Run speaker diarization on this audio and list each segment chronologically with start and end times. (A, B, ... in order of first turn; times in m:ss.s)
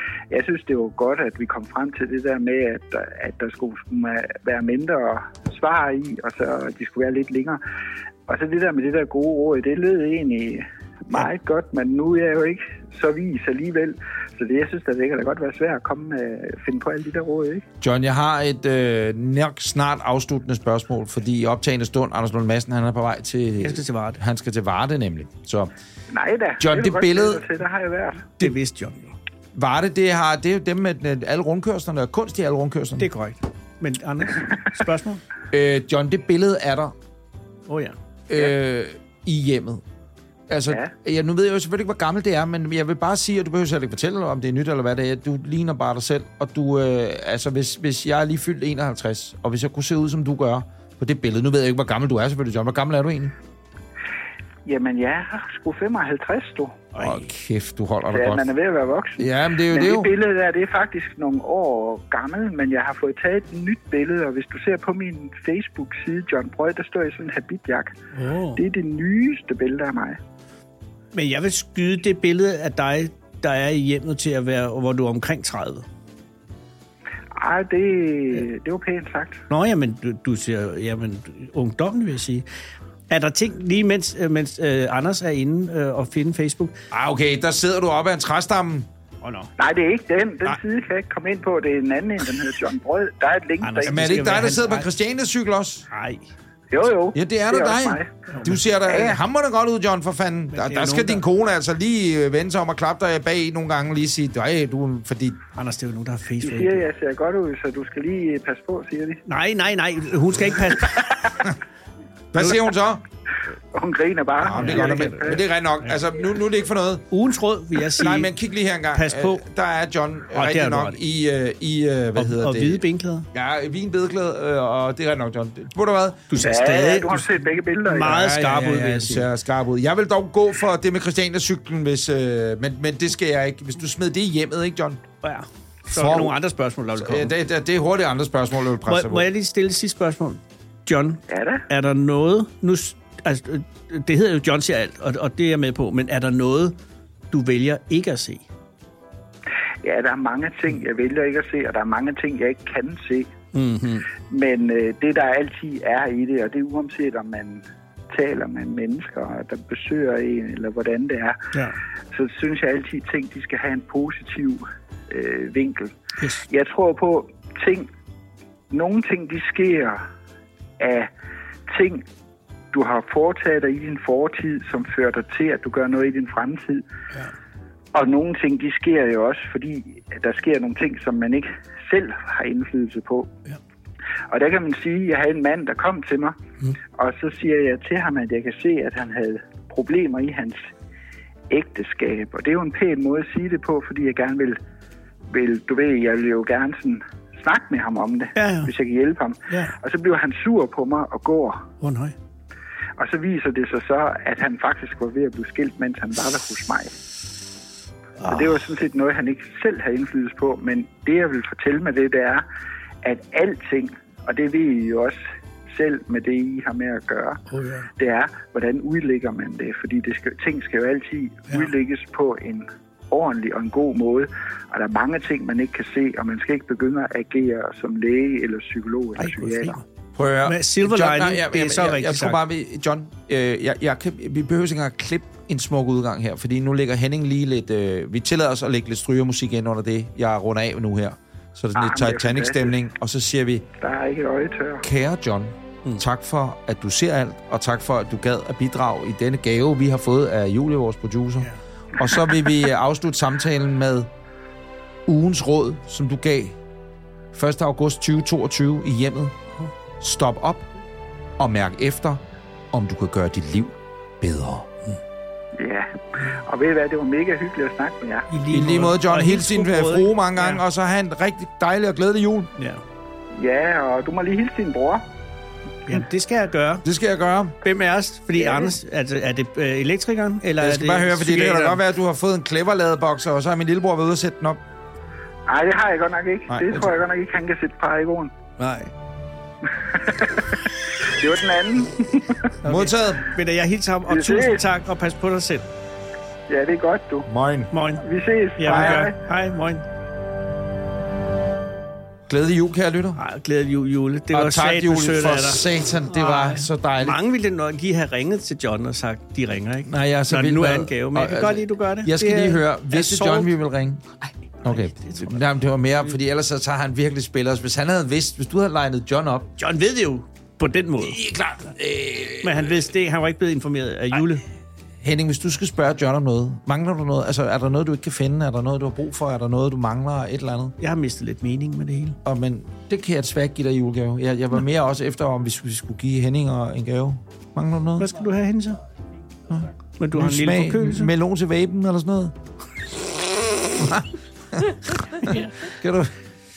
0:00.3-0:07.6 A
0:08.3-0:17.6 A
0:17.8-0:25.7 B
0:23.6-0:24.2 C
0:26.1-0:28.3 A
0:26.6-0:27.4 B
0:28.4-0:29.2 C
0:29.5-0:33.1 B
0:33.0-0:35.2 C
0:35.5-0:36.9 B
0:37.7-0:38.0 C
0:38.3-0:39.8 B
0:40.5-0:53.4 B
0:54.6-0:56.9 A
0:56.9-0:57.3 C
0:57.0-0:58.5 B
0:58.1-1:07.9 A
0:59.2-1:00.1 B
1:08.1-1:08.6 C
1:08.6-1:10.2 A
1:11.1-1:15.8 C
1:17.3-1:19.4 A
1:19.5-1:22.4 C
1:23.1-1:26.8 C
1:26.9-1:28.9 B
1:29.2-1:29.5 C
1:29.6-1:34.3 A
1:33.6-1:34.9 C
1:33.8-1:35.8 B
1:35.9-1:36.3 C
1:36.7-1:38.2 A
1:37.1-1:45.4 B
1:38.3-1:38.6 C
1:38.9-1:39.2 A
1:40.5-1:41.2 C
1:45.5-1:46.8 C
1:46.4-1:49.2 A
1:49.2-1:51.1 C
1:51.0-1:51.4 A
1:52.3-1:53.0 B
1:53.7-1:55.4 A
1:54.4-1:57.0 B
1:54.5-1:55.9 C
1:57.1-1:58.3 C
1:57.9-2:02.8 B
1:58.9-1:59.4 C
2:00.3-2:01.0 C
2:02.2-2:03.3 C
2:03.3-2:06.3 B
2:06.3-2:07.3 C
2:06.4-2:08.2 A
2:07.8-2:09.3 C
2:08.1-2:15.0 B
2:15.2-2:17.3 C
2:15.9-2:16.4 B
2:17.0-2:19.3 B
2:18.8-2:26.8 C
2:21.3-2:21.6 A
2:27.3-2:28.4 C
2:29.8-2:33.3 A
2:33.5-2:34.1 C
2:34.2-2:41.4 A
2:42.1-2:45.9 A
2:46.2-2:46.4 C
2:46.5-2:47.9 A
2:48.7-2:50.0 A
2:50.8-2:51.1 A
2:51.7-2:52.0 A
2:52.7-2:56.8 A
2:57.9-3:03.3 A
3:04.3-3:06.4 A
3:06.9-3:10.7 A
3:11.5-3:14.6 A
3:15.3-3:21.7 A
3:18.4-3:18.7 C
3:19.5-3:19.7 C
3:21.8-3:22.1 C
3:23.0-3:26.9 A
3:28.2-3:28.5 C
3:28.2-3:32.4 A
3:33.0-3:37.4 A
3:37.5-3:37.9 C
3:38.0-3:49.8 A
3:49.2-3:49.8 C
3:50.2-4:03.7 B
3:50.4-3:52.4 C
4:01.7-4:02.7 A
4:03.8-4:04.8 A
4:04.8-4:14.1 B
4:15.0-4:16.6 B
4:17.3-4:19.4 B
4:20.0-4:20.6 B
4:21.4-4:24.7 B
4:25.6-4:28.3 A
4:28.3-4:30.6 C
4:28.5-4:32.5 B
4:32.6-4:32.8 C
4:33.4-4:35.0 A
4:35.8-4:36.8 C
4:36.8-4:37.6 B
4:37.6-4:41.8 C
4:38.4-4:38.7 A
4:40.6-4:44.6 B
4:45.5-4:48.3 A
4:46.5-4:46.9 B
4:48.6-4:48.9 C
4:49.8-4:52.4 A
4:52.6-4:55.7 C
4:52.6-4:53.3 B
4:54.1-4:54.6 A
4:56.5-4:57.3 A
4:57.3-4:57.7 B
4:57.7-4:58.0 C
4:58.0-4:59.2 A
4:58.6-4:59.8 C
4:58.7-4:59.0 B
5:02.3-5:03.2 B
5:03.2-5:13.5 C
5:04.3-5:07.2 B
5:09.8-5:14.0 B
5:14.6-5:19.5 B
5:14.6-5:15.4 C
5:19.6-5:21.2 C
5:21.0-5:22.9 B
5:22.4-5:24.4 C
5:25.0-5:30.7 B
5:30.8-5:32.2 C
5:32.2-5:38.1 B
5:38.0-5:38.8 C
5:39.5-5:42.3 B
5:40.0-5:41.1 C
5:43.7-5:46.1 B
5:45.2-5:45.7 C